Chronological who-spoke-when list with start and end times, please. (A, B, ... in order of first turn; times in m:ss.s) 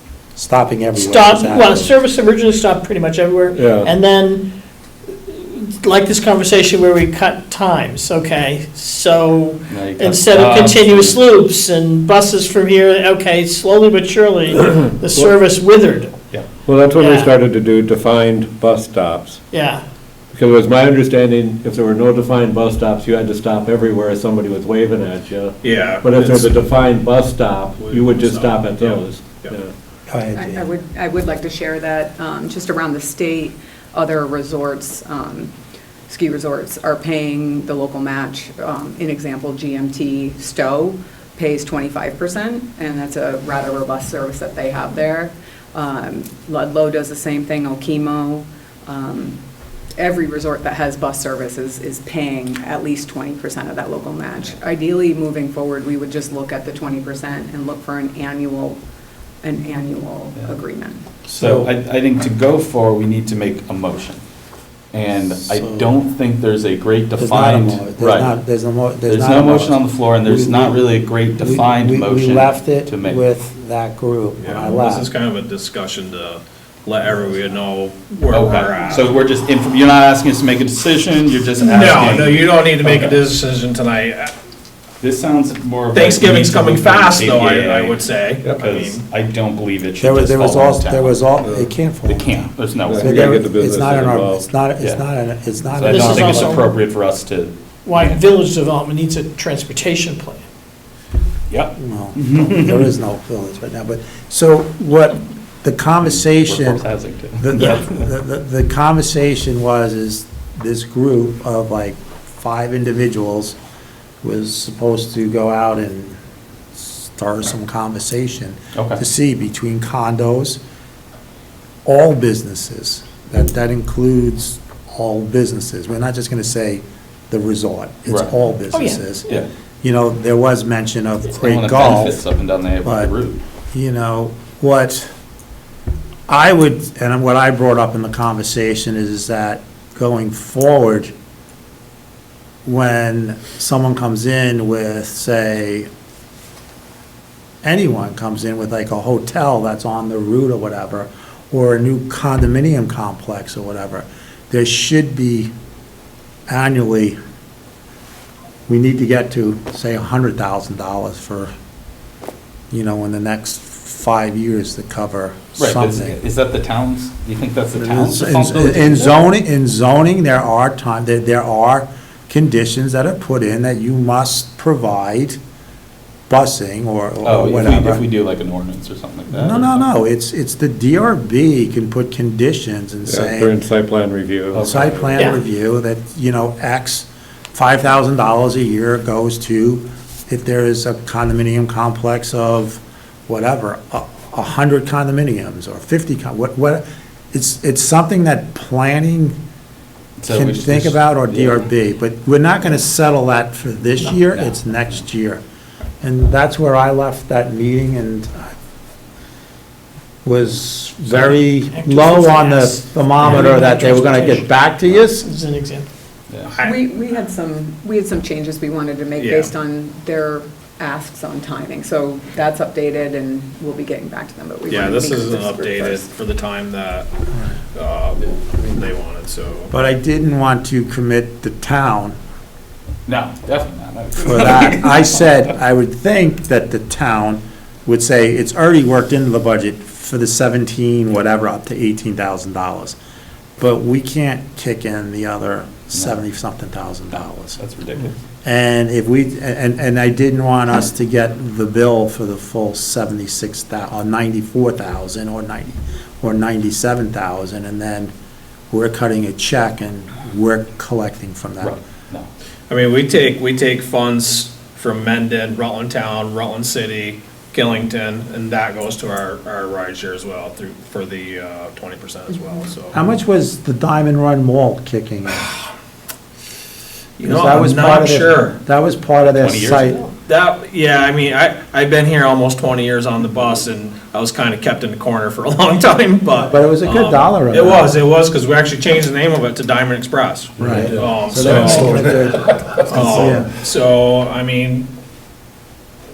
0:00.4-0:01.9 A
0:01.0-0:04.5 B
0:03.5-0:03.9 C
0:05.2-0:16.2 B
0:09.7-0:11.2 D
0:16.7-0:19.4 C
0:16.9-0:17.3 B
0:19.5-0:19.8 B
0:20.3-0:29.7 C
0:25.6-0:26.6 E
0:27.8-0:29.6 E
0:30.1-0:30.7 A
0:30.4-0:35.5 F
0:36.1-0:49.4 F
0:50.0-0:58.8 F
0:59.4-1:01.0 F
1:01.3-1:04.2 D
1:01.3-1:01.7 A
1:04.9-1:08.4 D
1:05.2-1:06.0 A
1:07.2-1:10.9 A
1:09.1-1:13.2 D
1:11.4-1:15.1 A
1:14.4-1:19.1 E
1:17.1-1:17.6 A
1:18.3-1:23.2 D
1:21.6-1:24.3 E
1:25.0-1:28.0 D
1:25.9-1:29.0 E
1:28.6-1:31.2 D
1:30.0-1:36.6 A
1:32.1-1:33.4 D
1:32.9-1:34.5 C
1:34.8-1:35.0 D
1:35.7-1:37.6 D
1:35.9-1:36.7 B
1:37.8-1:40.4 B
1:41.5-1:42.9 D
1:41.8-1:46.8 A
1:46.0-1:48.1 D
1:47.4-1:53.6 A
1:54.2-1:56.2 A
1:56.7-2:00.6 A
1:58.8-1:59.0 D
2:01.8-2:09.3 A
2:08.1-2:08.4 D
2:08.7-2:09.1 B
2:09.8-2:12.2 A
2:11.4-2:13.4 D
2:12.8-2:13.1 A
2:13.7-2:15.1 A
2:16.3-2:21.1 A
2:22.6-2:25.9 A
2:27.6-2:35.5 A
2:36.5-2:37.2 A
2:38.7-2:41.5 A
2:42.7-2:46.2 A
2:45.6-2:49.2 D
2:47.8-2:55.4 A
2:56.3-2:58.0 A
2:57.2-2:59.9 D
2:59.3-3:03.6 A
3:03.1-3:05.2 C
3:04.5-3:05.0 D
3:04.6-3:19.4 A
3:20.2-3:21.6 D
3:20.3-3:25.4 A
3:24.3-3:24.6 D
3:26.0-3:28.5 A
3:30.2-3:35.3 A
3:31.1-3:35.9 B
3:36.5-3:36.8 E
3:36.6-3:46.1 F
3:39.2-3:39.5 E
3:44.7-3:47.1 E
3:47.8-3:49.7 E
3:49.7-3:52.2 A
3:53.1-3:55.5 D
3:54.2-4:03.0 A
4:03.6-4:07.6 A
4:07.1-4:08.1 D
4:08.4-4:18.1 A
4:18.7-4:21.8 A
4:21.6-4:22.3 D
4:22.7-4:33.0 E
4:32.9-4:35.6 A
4:37.2-4:38.6 E
4:37.2-4:40.1 A
4:39.4-4:40.1 D
4:40.3-4:54.9 E
4:46.4-4:48.0 A
4:50.6-4:53.5 A